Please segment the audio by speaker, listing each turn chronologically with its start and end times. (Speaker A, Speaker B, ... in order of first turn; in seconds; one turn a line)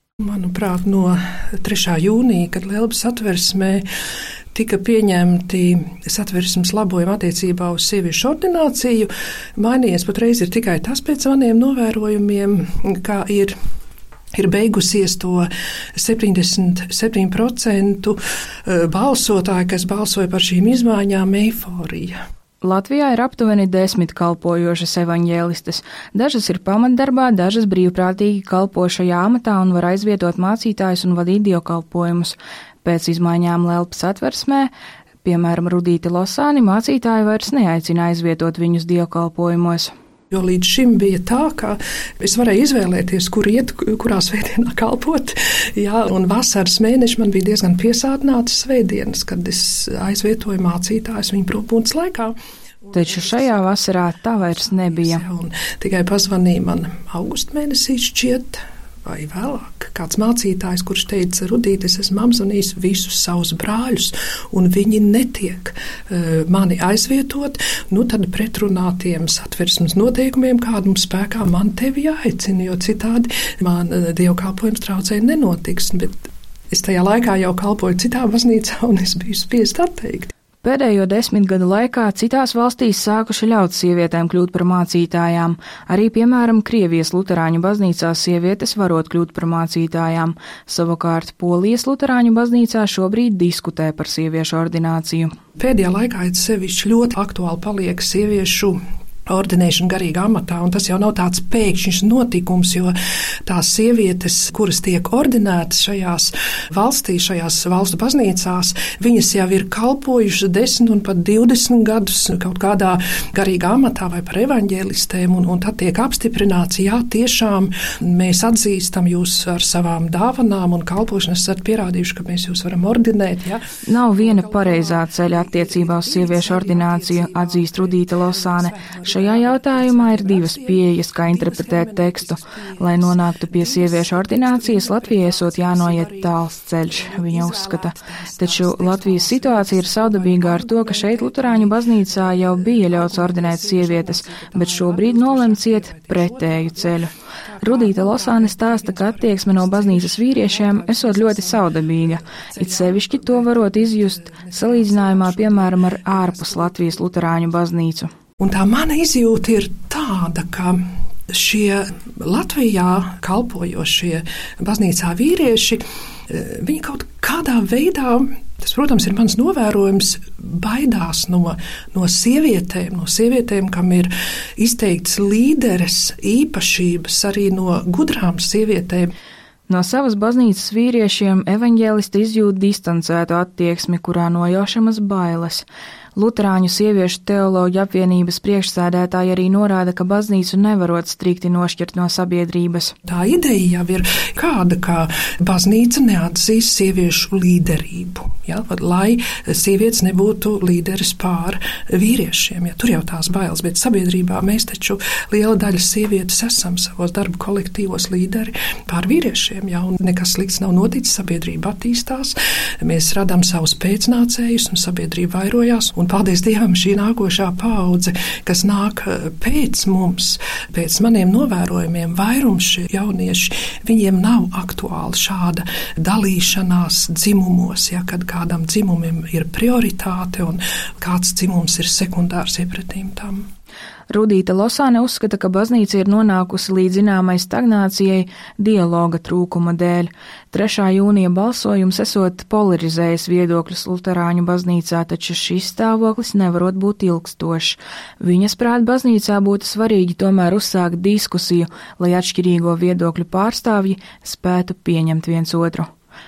Speaker A: 0.2-3.8
Speaker A: 4.5-13.5
Speaker A: 14.3-22.1
Speaker B: 22.6-34.7
Speaker B: 35.2-39.9
Speaker A: 40.3-53.7
Speaker B: 52.9-55.2
Speaker A: 54.7-76.2
Speaker A: 76.7-80.3
Speaker B: 80.6-95.3
Speaker A: 95.6-102.9
Speaker A: 103.5-136.3
Speaker B: 123.8-158.1
Speaker A: 136.9-157.1
Speaker A: 158.4-179.1
Speaker B: 179.7-185.6
Speaker B: 186.2-192.9
Speaker A: 193.1-233.4
Speaker B: 234.1-255.9